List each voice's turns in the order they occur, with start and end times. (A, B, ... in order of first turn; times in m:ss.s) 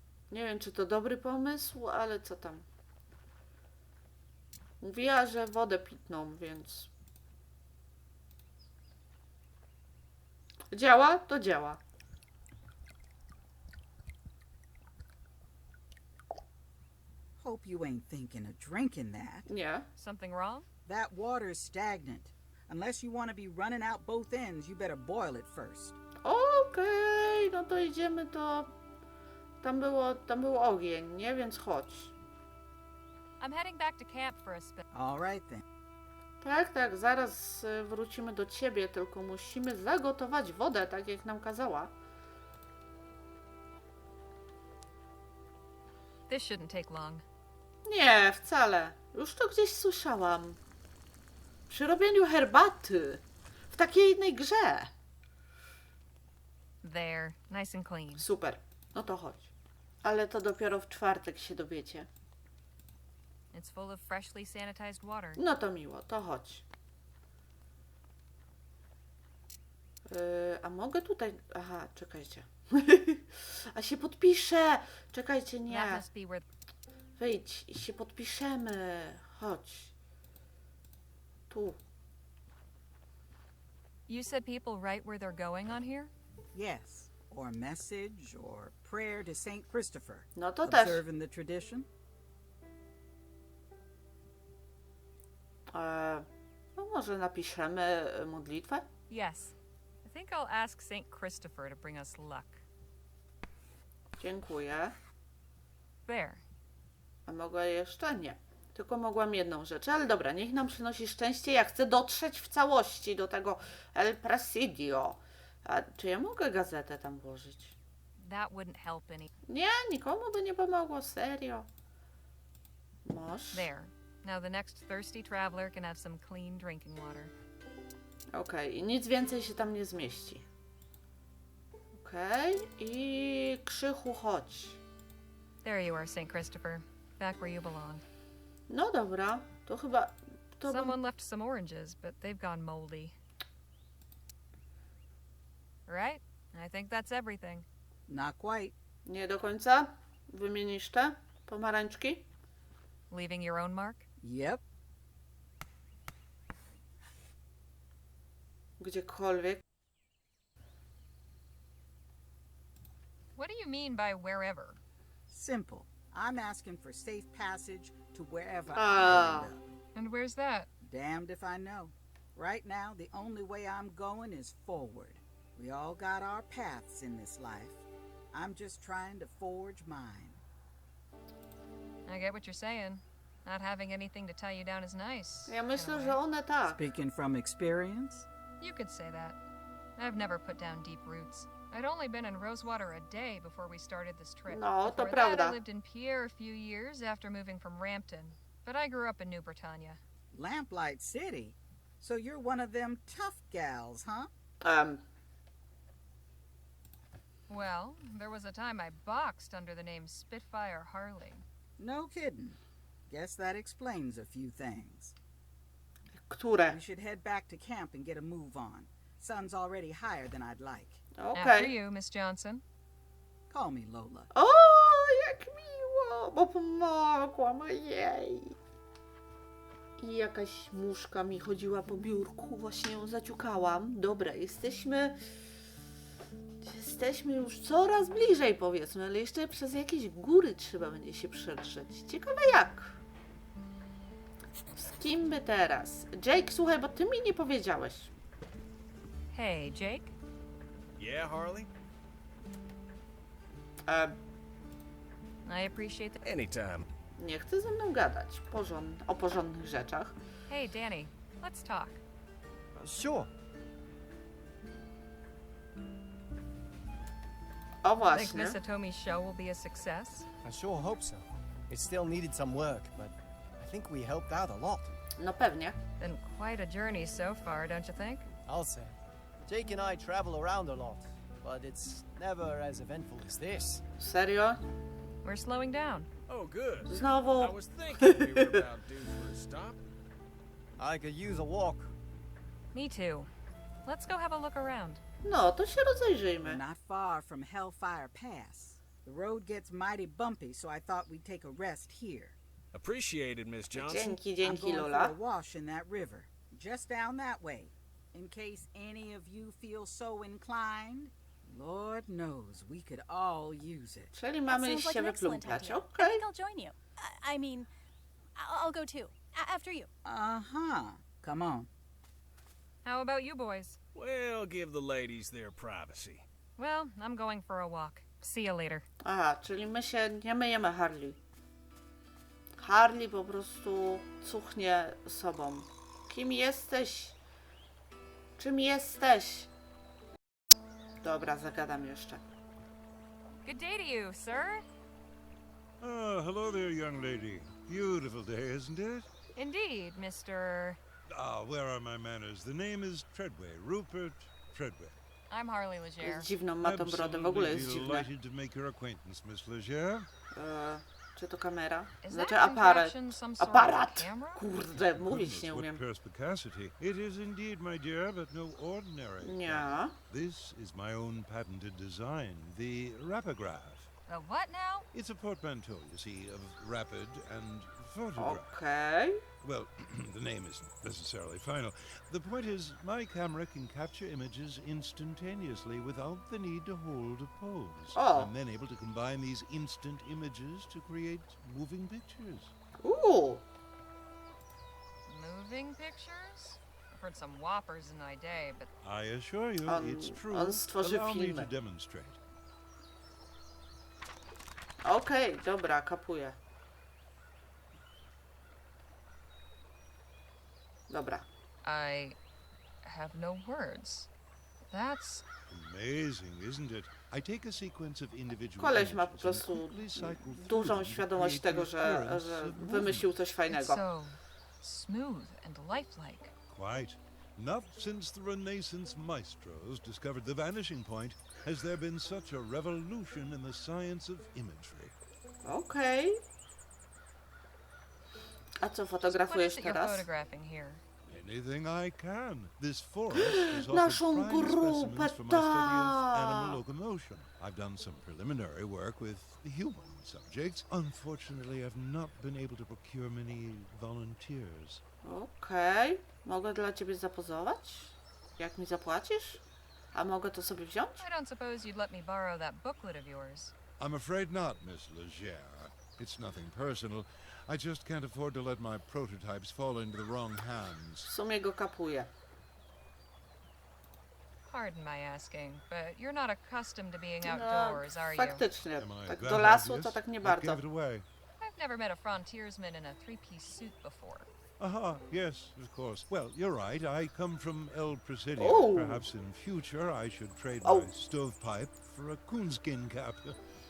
0:00.3-0:02.6 A
0:04.8-0:06.9 A
0:10.7-0:11.8 A
0:17.4-0:19.5 B
0:19.5-0:19.9 A
0:20.0-0:20.7 C
0:20.9-0:26.0 B
0:26.2-0:28.7 A
0:29.6-0:32.1 A
0:33.4-0:34.9 C
0:34.9-0:35.6 B
0:36.4-0:41.9 A
0:46.3-0:47.2 C
0:47.8-0:50.6 A
0:51.7-0:54.9 A
0:56.8-0:58.3 C
0:58.2-0:59.5 A
1:00.0-1:02.1 A
1:03.5-1:05.4 C
1:05.4-1:06.6 A
1:10.1-1:16.0 A
1:15.7-1:16.5 C
1:17.2-1:19.9 A
1:21.5-1:21.8 A
1:24.1-1:26.1 C
1:26.5-1:31.9 B
1:30.4-1:31.0 A
1:35.7-1:38.9 A
1:39.1-1:42.6 C
1:44.2-1:45.0 A
1:46.1-1:46.4 C
1:47.3-1:57.8 A
1:58.2-1:59.3 C
1:59.5-2:01.7 A
2:03.0-2:03.7 A
2:03.5-2:07.3 C
2:08.3-2:10.5 A
2:11.9-2:14.8 A
2:15.6-2:18.0 C
2:18.7-2:21.0 A
2:20.7-2:23.2 C
2:25.9-2:27.7 C
2:28.1-2:28.7 B
2:29.1-2:32.3 A
2:33.1-2:34.0 C
2:34.2-2:34.6 B
2:38.8-2:39.6 A
2:43.4-2:44.8 C
2:45.3-2:49.8 B
2:48.8-2:49.5 A
2:50.0-2:50.7 C
2:50.8-3:00.4 B
3:02.1-3:06.2 C
3:05.5-3:06.9 A
3:06.7-3:08.3 B
3:08.6-3:09.4 C
3:10.0-3:20.0 C
3:14.5-3:15.6 A
3:20.3-3:24.3 B
3:24.6-3:25.0 A
3:27.5-3:31.4 C
3:31.8-3:35.2 B
3:36.2-3:36.8 A
3:36.7-3:41.0 B
3:41.2-3:41.7 A
3:41.4-3:42.6 C
3:43.5-3:44.3 B
3:44.3-3:48.6 A
3:50.0-3:55.2 A
3:56.6-4:03.0 A
4:04.8-4:08.1 A
4:09.3-4:10.1 C
4:11.0-4:11.7 D
4:13.9-4:14.2 A
4:15.4-4:16.2 C
4:16.2-4:16.9 D
4:17.2-4:20.2 A
4:20.5-4:22.0 C
4:22.8-4:23.3 E
4:27.8-4:28.6 A
4:28.1-4:30.3 C
4:30.4-4:35.0 E
4:35.2-4:35.8 A
4:36.0-4:38.3 C
4:38.5-4:43.8 E
4:44.0-4:44.6 A
4:45.2-4:46.1 C
4:46.3-4:49.8 D
4:46.9-4:48.6 A
4:50.8-4:51.9 E
4:52.7-4:53.3 C
4:53.8-4:55.0 C
4:55.2-4:56.6 A
4:56.4-5:02.4 B
5:02.7-5:04.2 D
5:03.7-5:05.2 A
5:04.4-5:14.1 B
5:14.1-5:16.2 A
5:14.5-5:17.7 F
5:18.4-5:19.9 F
5:20.0-5:21.7 B
5:22.8-5:23.8 C
5:24.0-5:26.2 D
5:26.6-5:28.9 C
5:29.0-5:31.2 A
5:32.6-5:37.2 A
5:38.4-5:39.5 A
5:41.0-5:42.2 A
5:43.4-5:44.6 C
5:45.8-5:49.1 G
5:49.4-5:50.8 C
5:51.1-5:55.0 G
5:55.3-5:56.3 C
5:56.0-5:58.1 A
5:56.6-6:00.1 G
6:00.3-6:05.8 A
6:02.0-6:04.4 C
6:04.8-6:13.9 G
6:09.2-6:10.0 A
6:14.1-6:14.9 C
6:14.9-6:18.5 G
6:18.2-6:19.2 A
6:19.4-6:32.6 G
6:28.0-6:28.3 A
6:32.8-6:33.4 A
6:35.1-6:38.7 C
6:38.8-6:42.2 G
6:39.6-6:41.5 A
6:44.8-6:46.4 A
6:50.9-6:51.3 A
6:51.6-6:52.2 C
6:52.8-6:54.1 C
6:54.7-6:55.2 C
6:55.5-7:03.1 G
6:58.6-7:03.8 A
7:03.5-7:06.3 C
7:06.5-7:15.0 G
7:15.4-7:16.2 A
7:18.6-7:20.1 A
7:19.1-7:20.8 C
7:21.1-7:34.8 G
7:23.1-7:26.6 A
7:35.0-7:39.4 A
7:39.9-7:41.0 A
7:41.0-7:43.5 C
7:43.8-7:51.1 G
7:51.1-7:52.1 A
7:54.5-7:58.4 C
7:57.2-8:00.6 A
7:58.8-8:01.1 G
8:01.4-8:04.3 C
8:04.6-8:13.4 G
8:08.4-8:09.0 A
8:10.6-8:10.9 A